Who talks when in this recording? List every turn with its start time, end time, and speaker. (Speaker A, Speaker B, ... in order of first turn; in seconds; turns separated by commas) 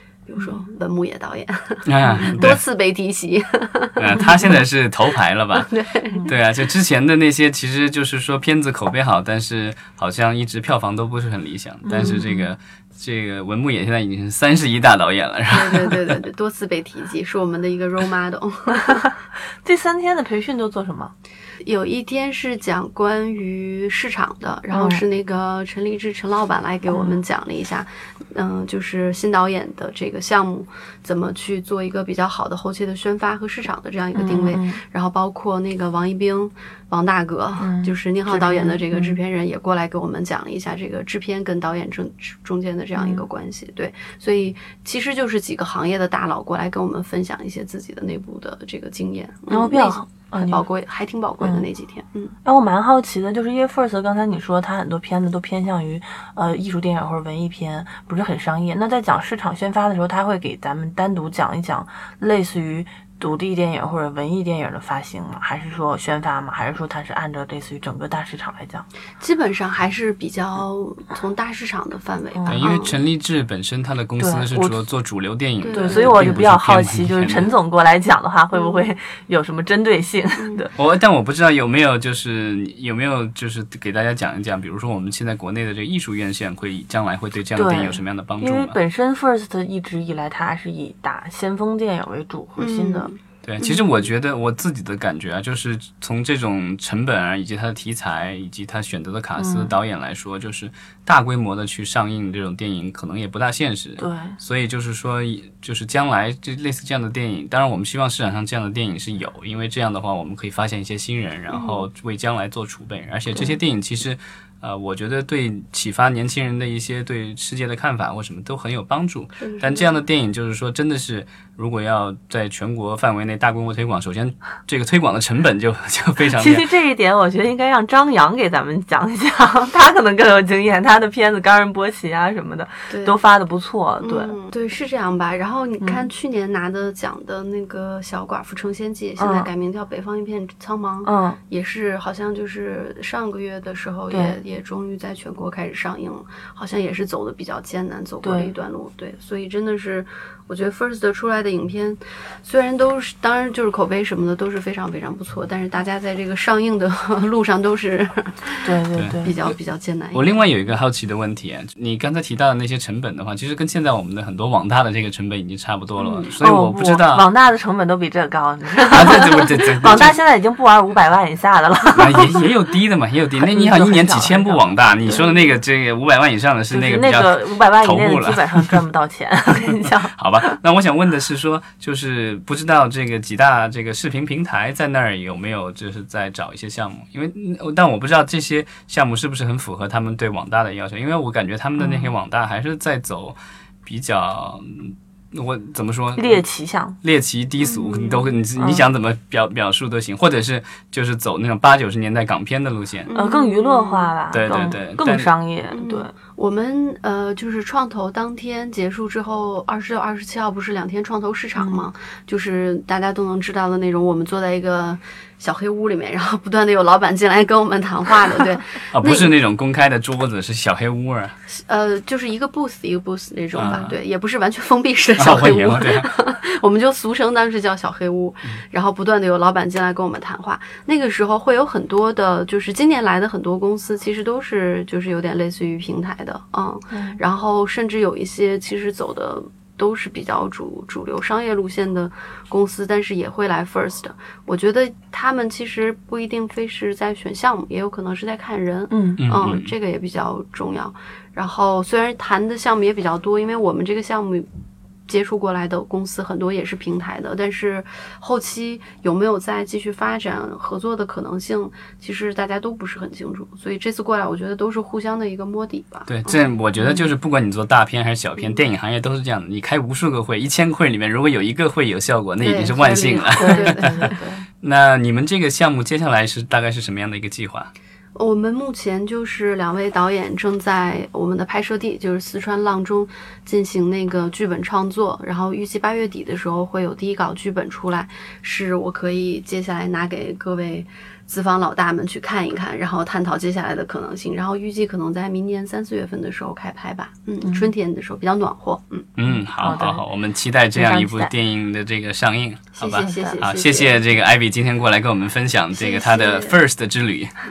Speaker A: 0.2-4.2, Speaker B: 0.4-0.6, Speaker C: 1.9-2.6, Speaker C: 4.0-5.7, Speaker A: 5.6-6.3, Speaker C: 6.3-16.2, Speaker B: 11.8-12.5, Speaker A: 15.5-19.1, Speaker B: 18.7-19.1, Speaker B: 19.6-21.1, Speaker A: 21.6-52.4, Speaker B: 24.7-25.0, Speaker B: 26.9-27.2, Speaker B: 34.1-34.8, Speaker B: 37.6-39.2, Speaker B: 43.0-43.3, Speaker B: 49.5-50.6, Speaker B: 51.4-51.7, Speaker B: 52.4-68.9, Speaker A: 69.2-73.0, Speaker B: 72.3-72.7, Speaker C: 72.5-77.5, Speaker B: 74.2-74.8, Speaker A: 75.6-76.4, Speaker B: 75.7-80.7, Speaker A: 78.5-78.9, Speaker A: 80.4-80.7, Speaker C: 80.7-88.8, Speaker B: 87.6-93.1, Speaker A: 92.6-93.2, Speaker C: 93.4-126.7, Speaker B: 99.4-99.7, Speaker B: 104.0-104.4, Speaker A: 111.5-111.9, Speaker A: 119.4-119.9, Speaker B: 126.4-134.3, Speaker A: 132.9-133.2, Speaker A: 134.0-160.4, Speaker B: 135.8-136.1, Speaker B: 139.2-139.5, Speaker B: 141.1-141.4, Speaker B: 144.1-144.4, Speaker B: 148.2-148.5, Speaker B: 158.6-159.4, Speaker C: 158.9-159.2, Speaker C: 160.1-167.3, Speaker A: 166.0-166.3, Speaker B: 166.4-172.5, Speaker C: 168.9-170.2, Speaker C: 171.9-178.8, Speaker B: 173.4-175.2, Speaker A: 175.1-175.5, Speaker B: 176.7-180.6, Speaker C: 180.1-196.4, Speaker B: 191.8-192.1, Speaker B: 196.2-197.0, Speaker C: 197.0-203.1, Speaker A: 197.6-198.3, Speaker B: 198.6-198.8, Speaker A: 203.1-204.1, Speaker B: 203.1-206.1, Speaker C: 204.3-205.3, Speaker A: 205.7-219.3, Speaker B: 211.6-211.9, Speaker C: 218.9-221.3, Speaker A: 221.5-254.5, Speaker C: 223.6-223.9, Speaker C: 225.2-226.1, Speaker B: 236.9-237.2, Speaker B: 248.9-249.2, Speaker C: 249.2-249.7, Speaker A: 255.1-266.4, Speaker C: 266.1-274.1, Speaker A: 268.4-268.6, Speaker A: 272.4-274.1, Speaker B: 273.4-274.4, Speaker C: 274.6-277.7, Speaker A: 278.1-299.1, Speaker B: 297.4-297.7, Speaker C: 299.2-307.4, Speaker B: 299.6-300.0, Speaker B: 300.7-301.3, Speaker A: 302.8-304.0, Speaker B: 303.0-303.4, Speaker A: 305.7-306.6